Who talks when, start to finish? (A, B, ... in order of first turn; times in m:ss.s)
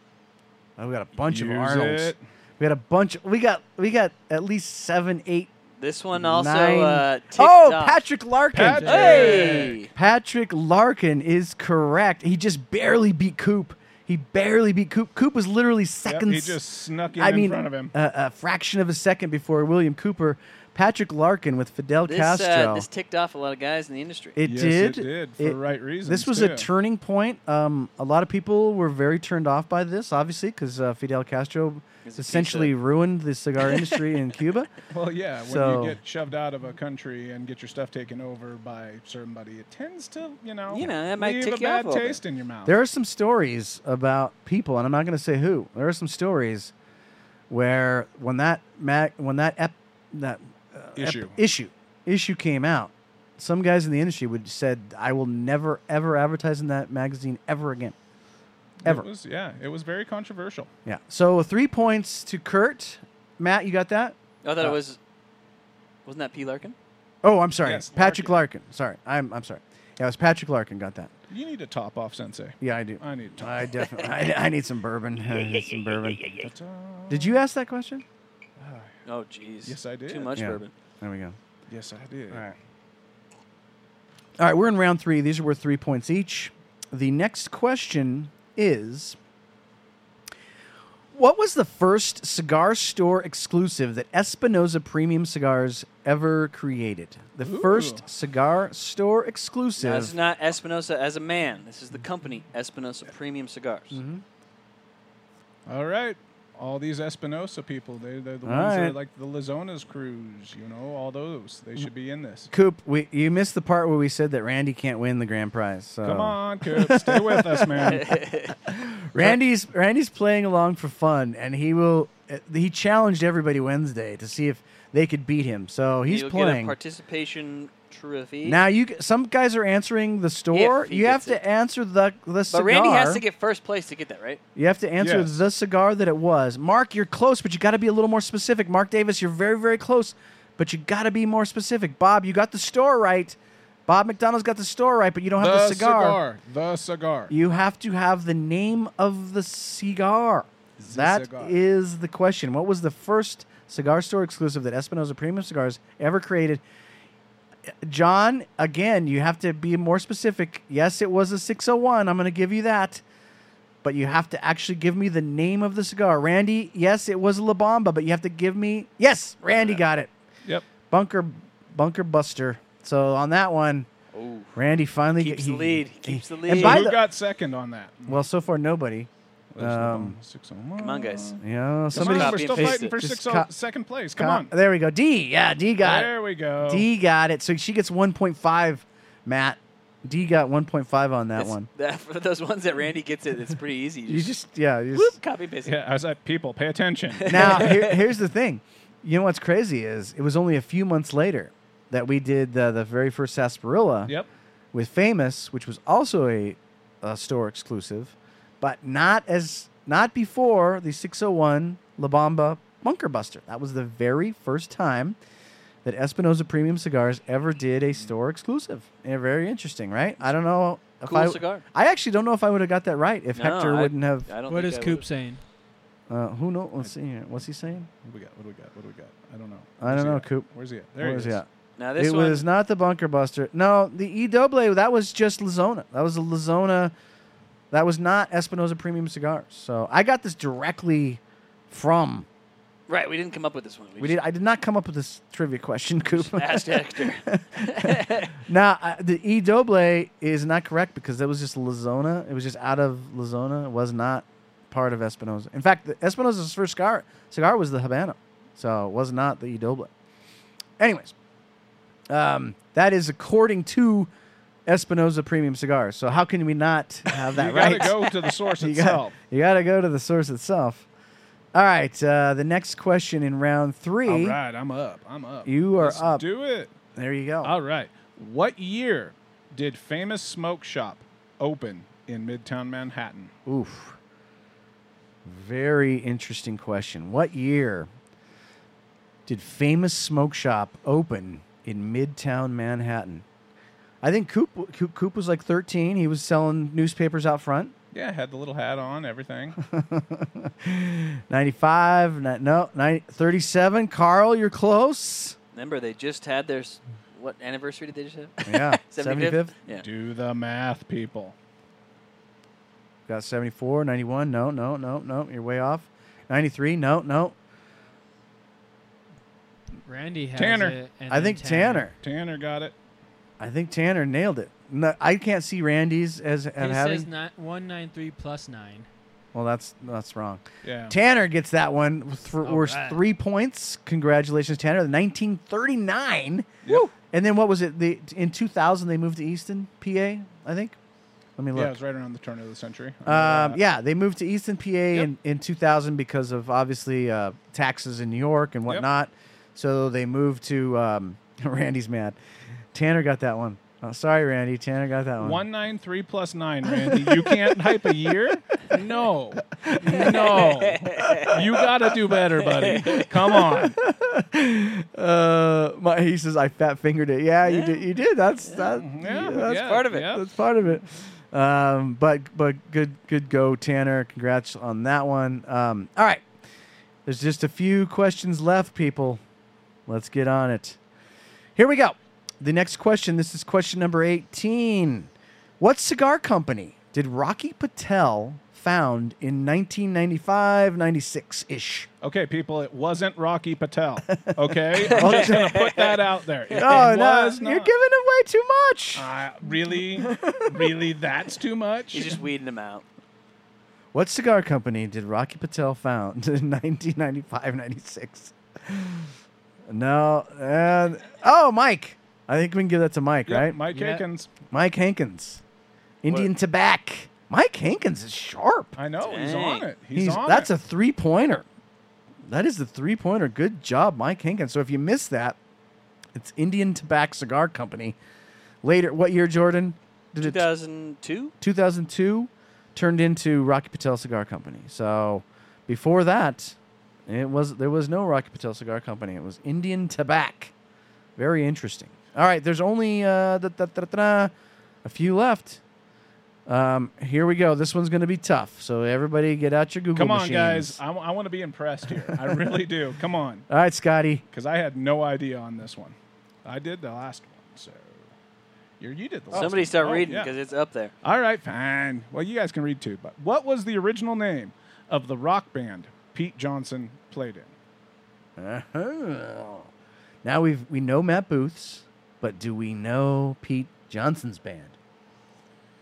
0:00.8-0:05.5 A
0:01.2-0:02.2 B
0:05.8-0:08.0 C
0:06.1-0:16.6 A
0:08.5-0:09.8 B
0:08.8-0:09.6 D
0:08.8-0:09.9 C
0:16.0-0:17.9 B
0:17.1-0:22.9 A
0:22.0-0:24.4 C
0:24.4-0:34.7 A
0:24.4-0:26.7 B
0:32.0-0:32.7 C
0:33.6-0:34.0 C
0:34.9-0:42.8 B
0:35.4-0:36.0 A
0:40.7-0:42.2 C
0:42.6-0:46.7 A
0:47.5-0:58.0 A
0:51.0-0:51.4 B
0:58.8-1:00.7 B
1:00.9-1:04.8 A
1:04.4-1:05.0 C
1:06.1-1:06.7 C
1:07.2-1:11.1 A
1:07.6-1:08.4 B
1:11.3-1:13.7 B
1:12.6-1:16.2 A
1:15.3-1:16.5 C
1:16.4-1:17.4 B
1:17.1-1:18.0 A
1:18.6-1:18.9 B
1:19.0-1:20.7 C
1:19.6-1:20.3 B
1:20.4-1:21.4 A
1:21.7-1:22.5 B
1:24.4-1:29.2 A
1:31.1-1:40.2 A
1:37.4-1:38.0 B
1:39.8-1:44.0 C
1:43.9-1:44.2 A
1:45.7-1:52.5 B
1:48.4-1:49.0 A
1:52.5-1:58.0 A
1:56.0-1:58.1 B
1:57.8-1:58.5 C
1:58.7-2:06.7 A
2:06.1-2:08.6 C
2:08.4-2:13.2 A
2:10.5-2:11.4 C
2:12.5-2:14.4 C
2:14.6-2:26.2 A
2:15.0-2:15.3 B
2:25.4-2:27.3 B
2:27.3-2:36.6 A
2:30.8-2:31.6 B
2:37.8-2:43.0 A
2:43.8-2:50.1 A
2:50.9-2:53.9 A
2:54.1-2:54.5 C
2:54.6-2:57.0 A
2:55.2-2:56.9 C
2:56.5-2:58.2 B
2:58.1-3:00.2 A
2:59.5-3:01.4 B
3:00.8-3:01.4 C
3:01.4-3:03.5 A
3:01.9-3:03.0 C
3:02.0-3:04.5 B
3:04.2-3:11.7 A
3:05.8-3:06.9 B
3:11.4-3:14.3 C
3:14.1-3:15.2 A
3:14.9-3:15.7 C
3:15.7-3:17.8 B
3:17.2-3:18.0 C
3:17.3-3:24.1 A
3:24.7-3:35.2 A
3:35.8-3:44.3 A
3:41.0-3:41.6 C
3:43.4-3:45.0 C
3:44.5-3:45.4 D
3:46.1-3:47.9 A
3:48.0-3:51.4 B
3:49.8-3:56.9 A
3:51.8-3:52.4 C
3:57.7-4:02.3 A
4:02.9-4:04.2 C
4:04.0-4:19.9 A
4:06.1-4:08.3 C
4:20.8-4:21.1 A
4:22.1-4:24.1 A
4:24.7-4:30.9 A
4:27.2-4:29.1 B
4:31.5-4:34.4 A
4:34.0-4:36.7 B
4:35.4-4:36.2 A
4:37.0-4:37.5 A
4:37.4-4:43.3 B
4:43.4-4:44.0 A
4:45.2-4:47.9 A
4:49.3-4:53.2 A
4:54.0-4:57.7 A
4:57.9-4:59.6 B
4:59.6-5:05.4 A
5:05.5-5:09.8 C
5:08.4-5:09.5 A
5:09.8-5:11.4 B
5:13.1-5:17.4 A
5:19.9-5:21.9 D
5:20.4-5:20.8 B
5:21.1-5:22.0 A
5:22.0-5:22.7 B
5:23.4-5:27.1 A
5:26.6-5:28.9 D
5:29.3-5:40.8 A
5:30.6-5:31.0 B
5:32.4-5:33.0 D
5:41.4-5:41.7 A
5:41.5-5:43.6 B
5:43.1-5:52.2 A
5:52.7-5:55.4 A
5:55.2-6:03.8 B
5:56.7-5:58.2 A
5:59.6-6:00.4 A
6:00.0-6:01.4 C
6:02.6-6:03.0 C
6:03.0-6:16.2 A
6:07.4-6:07.8 C
6:08.8-6:10.3 B
6:09.4-6:10.1 C
6:17.0-6:19.2 A
6:19.9-6:20.8 A
6:21.6-6:31.9 A
6:32.0-6:37.7 B
6:34.1-6:35.6 A
6:34.9-6:36.0 C
6:36.5-6:39.1 A
6:39.0-6:42.2 B
6:39.7-6:40.8 A
6:41.9-6:42.8 C
6:43.9-6:49.1 A
6:49.7-6:55.4 A
6:53.3-6:54.3 B
6:56.0-6:58.7 A
6:58.8-7:00.5 B
6:59.0-6:59.7 C
6:59.9-7:01.4 A
7:02.3-7:05.4 A
7:06.1-7:08.0 A
7:08.6-7:10.5 A
7:10.2-7:11.3 C
7:11.4-7:16.6 A
7:17.1-7:20.5 A
7:21.2-7:24.3 A
7:24.8-7:25.6 A
7:26.5-7:30.8 A
7:30.0-7:33.4 B
7:32.1-7:32.6 A
7:33.5-7:34.2 A
7:34.3-7:38.1 B
7:38.8-7:40.3 B
7:39.3-7:40.9 C
7:41.0-7:47.5 B
7:48.4-7:49.7 A
7:50.2-7:54.7 A